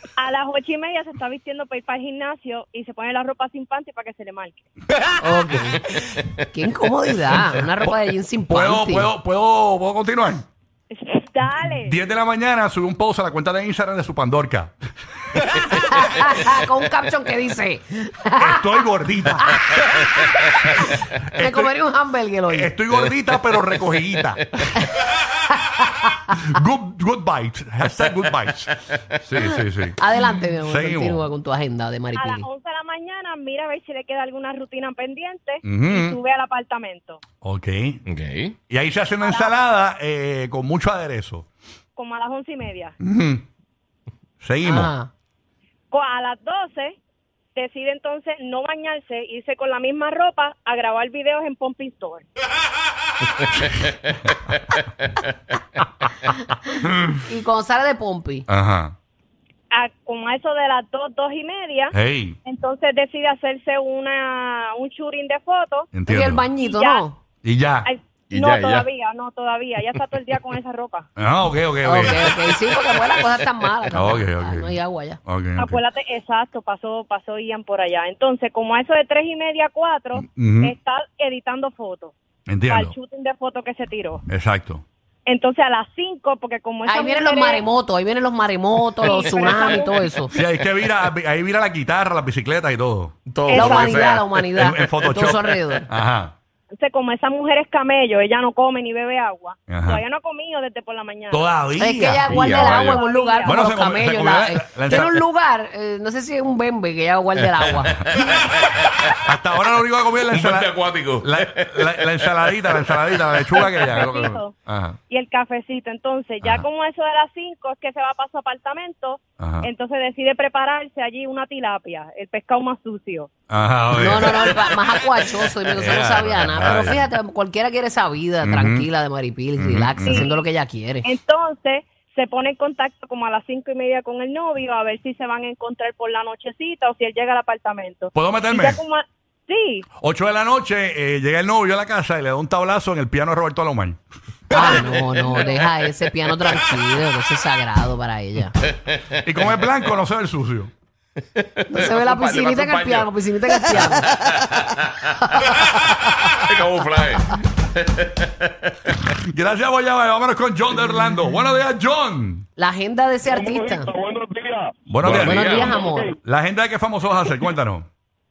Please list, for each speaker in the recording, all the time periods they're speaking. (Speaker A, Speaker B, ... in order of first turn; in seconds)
Speaker A: 0.2-4.6, 10.9-11.9, 32.1-37.2, 39.2-39.5, 42.0-42.9, 45.9-47.0, 47.5-52.2, 59.7-65.9, 66.6-67.0, 67.8-71.1, 75.6-82.1, 82.7-84.2, 85.2-87.6, 89.0-90.2, 93.5-94.0, 96.8-101.5, 102.8-103.6, 113.6-114.5, 115.1-123.3, 130.0-130.3, 131.0-139.8, 144.6-145.6
Speaker B: 5.2-5.8, 6.5-9.1, 15.6-18.7, 19.5-20.3, 21.3-22.7, 30.0-32.5, 44.6-45.1, 57.3-58.5, 66.0-67.2, 71.8-75.2, 86.8-90.3, 93.5-95.9, 101.8-108.0, 124.0-131.1, 144.5-148.5, 151.7-154.6, 155.2-156.3, 162.6-163.9, 165.1-166.1
Speaker C: 7.8-10.4, 11.8-14.7, 18.4-19.8, 21.2-21.7, 22.5-24.7, 26.3-30.0, 30.6-31.2, 35.6-36.2, 37.4-38.0, 38.7-41.5, 43.0-43.4, 44.4-44.9, 56.7-57.2, 58.5-59.0, 61.9-62.4, 65.9-66.5, 67.4-67.9, 71.2-72.4, 73.9-75.8, 80.2-80.7, 82.5-82.9, 84.3-84.8, 90.3-93.1, 94.5-96.3, 99.7-100.0, 101.3-102.8, 103.4-105.2, 109.2-115.0, 119.4-119.7, 123.5-124.8, 125.8-127.1, 128.4-128.9, 129.6-130.3, 138.1-138.8, 140.0-144.0, 149.2-150.7, 159.1-162.4, 164.9-165.7, 166.2-167.8
Speaker D: 38.1-38.5, 53.7-53.9, 68.3-68.8, 93.3-94.3, 102.3-103.0, 108.2-108.8, 110.3-113.4, 148.8-149.7, 151.3-155.6, 156.5-158.9, 165.0-165.8
Speaker E: 163.2-164.8, 165.5-166.2